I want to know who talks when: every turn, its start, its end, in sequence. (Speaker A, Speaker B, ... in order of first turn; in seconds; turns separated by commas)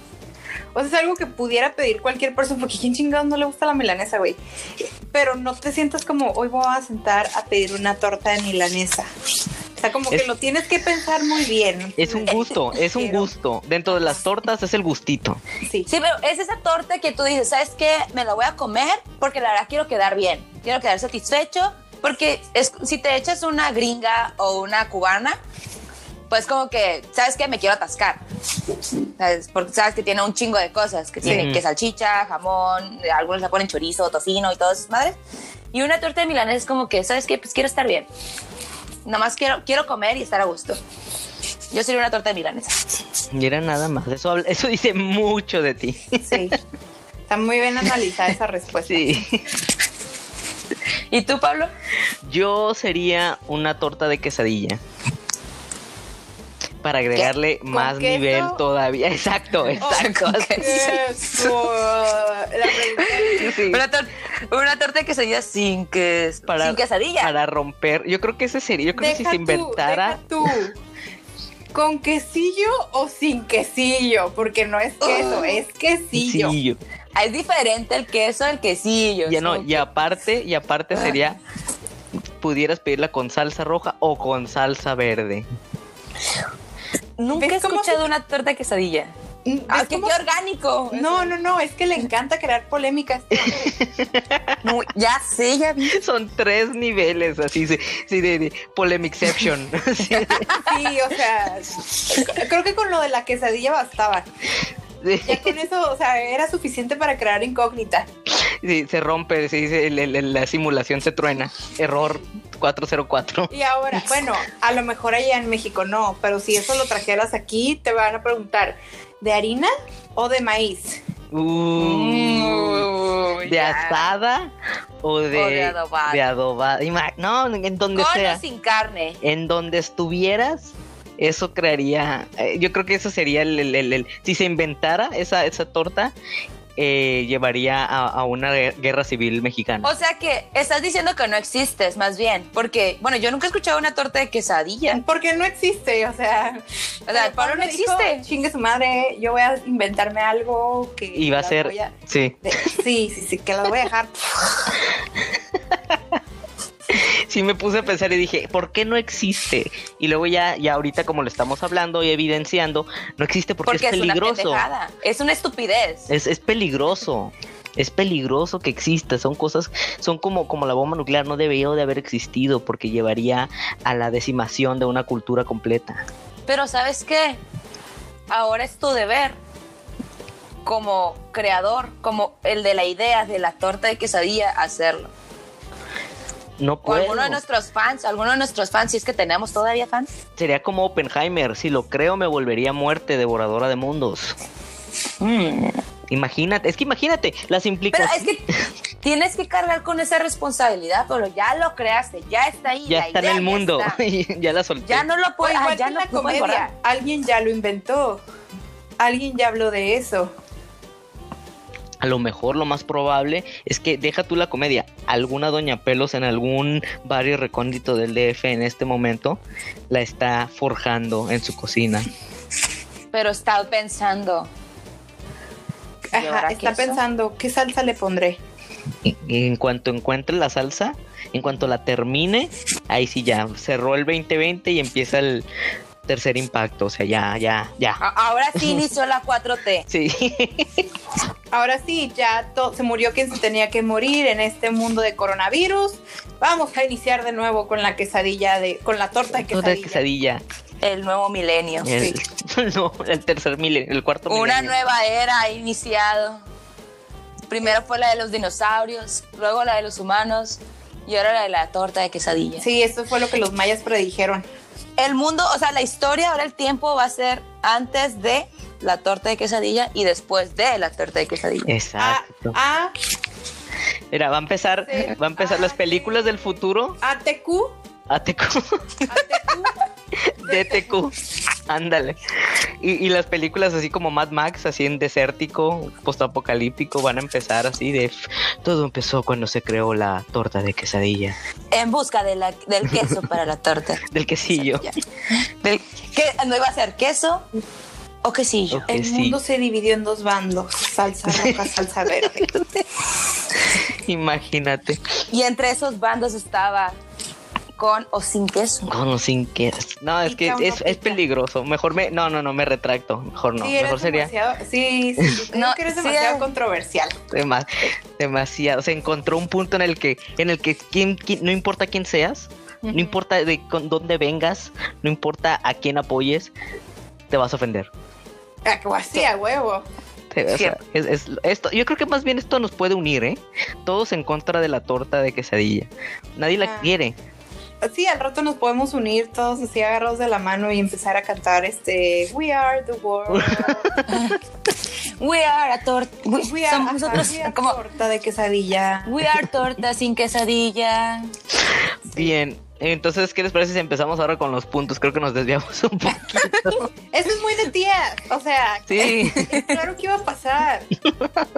Speaker A: 0.7-4.4, Speaker A: 5.1-9.1, Speaker A: 9.8-13.3, Speaker B: 12.0-15.4, Speaker C: 15.9-25.4, Speaker C: 26.3-28.2, Speaker C: 29.2-35.1, Speaker B: 31.2-31.6, Speaker C: 35.7-38.1, Speaker C: 39.0-40.8, Speaker C: 41.7-43.0, Speaker B: 43.3-46.5, Speaker A: 46.2-46.6, Speaker A: 47.3-49.1, Speaker B: 48.9-49.5, Speaker C: 51.1-51.7, Speaker B: 52.2-54.8, Speaker B: 56.8-61.0, Speaker A: 57.7-58.6, Speaker C: 59.8-61.5, Speaker A: 59.8-63.6, Speaker C: 62.9-67.3, Speaker B: 63.4-63.8, Speaker B: 66.5-70.2, Speaker A: 68.9-70.8, Speaker A: 71.7-76.5, Speaker C: 75.0-75.6, Speaker B: 76.2-76.8, Speaker C: 77.1-79.8, Speaker B: 79.3-81.4, Speaker B: 82.4-85.5, Speaker C: 87.2-89.1, Speaker A: 87.3-88.0, Speaker A: 89.5-90.2, Speaker C: 89.7-91.3, Speaker A: 90.9-93.7, Speaker B: 93.3-94.6, Speaker C: 94.6-96.0, Speaker B: 95.9-100.6, Speaker A: 100.6-104.2, Speaker B: 105.0-105.5, Speaker A: 105.2-108.1, Speaker B: 108.4-113.5, Speaker A: 113.5-121.0, Speaker B: 121.3-122.9, Speaker C: 121.8-124.1, Speaker B: 123.5-128.4, Speaker C: 125.3-126.2, Speaker C: 127.9-129.2, Speaker B: 129.2-136.1, Speaker B: 136.8-139.9, Speaker C: 139.8-145.0, Speaker A: 144.9-154.7, Speaker C: 147.1-148.2, Speaker B: 151.1-152.4, Speaker B: 155.7-156.2, Speaker B: 156.9-164.7, Speaker C: 163.6-166.1, Speaker B: 166.1-176.0, Speaker C: 176.5-177.4, Speaker C: 178.3-179.3, Speaker C: 180.6-185.1, Speaker B: 186.6-187.4, Speaker C: 186.8-190.1, Speaker B: 190.4-194.3, Speaker C: 195.2-195.8, Speaker B: 196.1-198.3, Speaker C: 197.9-198.4, Speaker C: 199.0-204.0, Speaker B: 202.9-205.1, Speaker C: 204.8-206.7, Speaker A: 205.4-208.2, Speaker A: 209.0-210.3, Speaker B: 212.0-222.1, Speaker C: 223.1-224.5, Speaker A: 226.1-228.4, Speaker C: 226.1-227.0, Speaker B: 229.0-235.4, Speaker B: 236.1-238.0, Speaker C: 238.0-239.8, Speaker B: 238.6-238.8, Speaker B: 239.9-240.9, Speaker A: 241.5-250.0, Speaker B: 249.5-250.4, Speaker C: 250.8-251.9, Speaker B: 251.8-254.7, Speaker C: 254.3-256.4, Speaker C: 257.5-262.6, Speaker A: 262.6-264.4, Speaker C: 265.0-271.7, Speaker B: 271.7-272.6, Speaker A: 272.0-272.9, Speaker B: 274.1-277.0, Speaker A: 274.9-276.5, Speaker A: 277.0-277.7, Speaker B: 278.1-278.8, Speaker A: 279.1-279.8, Speaker B: 280.2-281.1, Speaker A: 280.4-280.9, Speaker B: 281.7-291.4, Speaker C: 291.7-294.0, Speaker B: 294.1-294.9, Speaker C: 294.6-294.9, Speaker C: 295.6-297.4, Speaker C: 298.2-298.9, Speaker B: 298.7-299.4, Speaker A: 298.9-302.5, Speaker B: 301.3-301.6, Speaker B: 303.8-305.0, Speaker C: 305.3-307.0, Speaker C: 307.8-308.9, Speaker B: 308.9-314.3, Speaker A: 310.2-311.2, Speaker A: 313.6-317.2, Speaker C: 315.5-316.4, Speaker B: 317.3-326.5, Speaker A: 322.8-323.1, Speaker B: 327.3-327.9, Speaker A: 328.6-329.8, Speaker B: 330.3-337.1, Speaker A: 336.6-336.9, Speaker A: 337.8-344.0, Speaker B: 343.3-344.2, Speaker C: 344.1-344.4, Speaker C: 345.2-347.8, Speaker A: 346.4-349.1, Speaker C: 349.0-351.3, Speaker B: 352.1-356.9, Speaker A: 357.1-360.9, Speaker B: 358.9-359.5, Speaker C: 359.3-359.7, Speaker B: 361.0-361.4